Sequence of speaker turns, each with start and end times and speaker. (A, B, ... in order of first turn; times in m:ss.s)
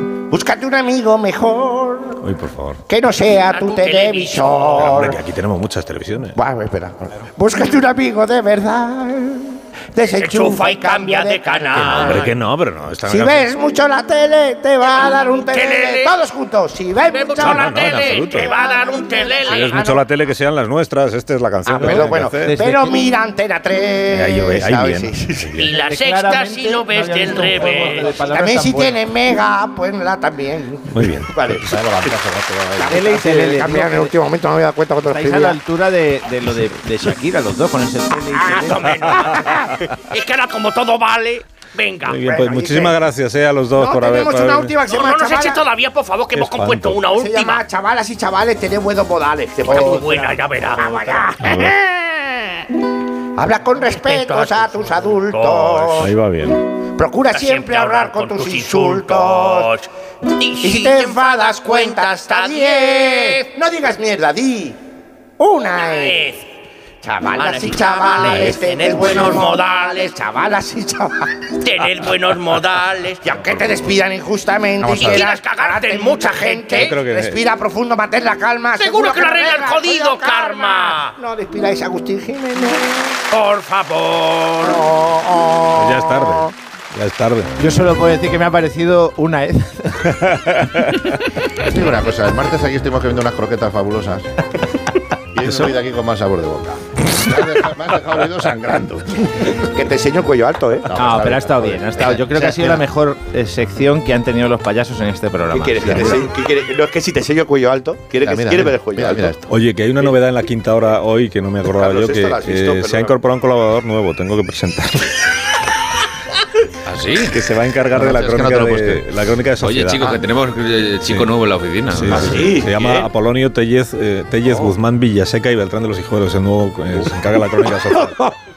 0:00.3-0:02.2 A
0:02.2-0:02.8 B
0:02.9-0:05.2 A
0:03.5-0:04.8 C
0:04.8-0:06.4 B
0:06.4-0:12.3 A
0:10.2-0:12.3 C
0:11.7-0:13.4 B
0:13.0-0:20.0 A
0:15.5-0:16.1 C
0:17.1-0:19.9 C
0:17.4-0:18.5 B
0:19.4-0:22.5 B
0:21.6-0:25.6 A
0:21.7-0:23.0 D
0:24.1-0:25.7 B
0:25.5-0:28.1 C
0:25.6-0:29.0 D
0:27.5-0:31.1 A
0:30.9-0:31.5 B
0:31.6-0:33.0 E
0:32.8-0:35.6 A
0:32.9-0:34.1 D
0:35.1-0:38.9 D
0:38.4-0:39.8 A
0:38.5-0:42.4 C
0:42.0-0:44.7 B
0:42.1-0:43.0 A
0:43.7-0:45.6 A
0:44.8-0:47.6 C
0:46.3-0:47.0 B
0:47.1-0:52.6 A
0:49.6-0:51.2 C
0:51.4-0:51.7 B
0:53.4-0:56.1 A
0:54.0-0:56.0 C
0:56.0-0:56.6 B
0:57.0-0:59.7 A
0:57.3-0:59.9 C
1:00.4-1:03.4 C
1:00.6-1:04.8 A
1:05.4-1:06.4 A
1:05.9-1:06.4 C
1:07.0-1:11.3 A
1:07.4-1:10.1 C
1:11.6-1:13.2 C
1:13.2-1:23.0 A
1:14.8-1:15.2 E
1:14.9-1:16.9 C
1:16.7-1:17.4 B
1:18.8-1:21.2 C
1:23.3-1:24.9 C
1:24.6-1:26.5 A
1:25.7-1:27.5 B
1:27.6-1:30.1 D
1:30.0-1:31.1 B
1:31.6-1:34.2 E
1:35.3-1:39.5 E
1:35.4-1:35.8 B
1:39.7-1:40.9 F
1:40.9-1:42.7 E
1:40.9-1:46.2 D
1:45.5-1:49.4 F
1:48.2-1:49.3 E
1:49.5-1:55.3 B
1:51.7-1:53.2 F
1:56.8-1:57.4 G
1:57.3-2:00.2 B
1:57.9-1:59.0 E
1:59.6-2:02.9 G
2:01.0-2:01.3 B
2:01.9-2:08.3 B
2:02.2-2:03.0 F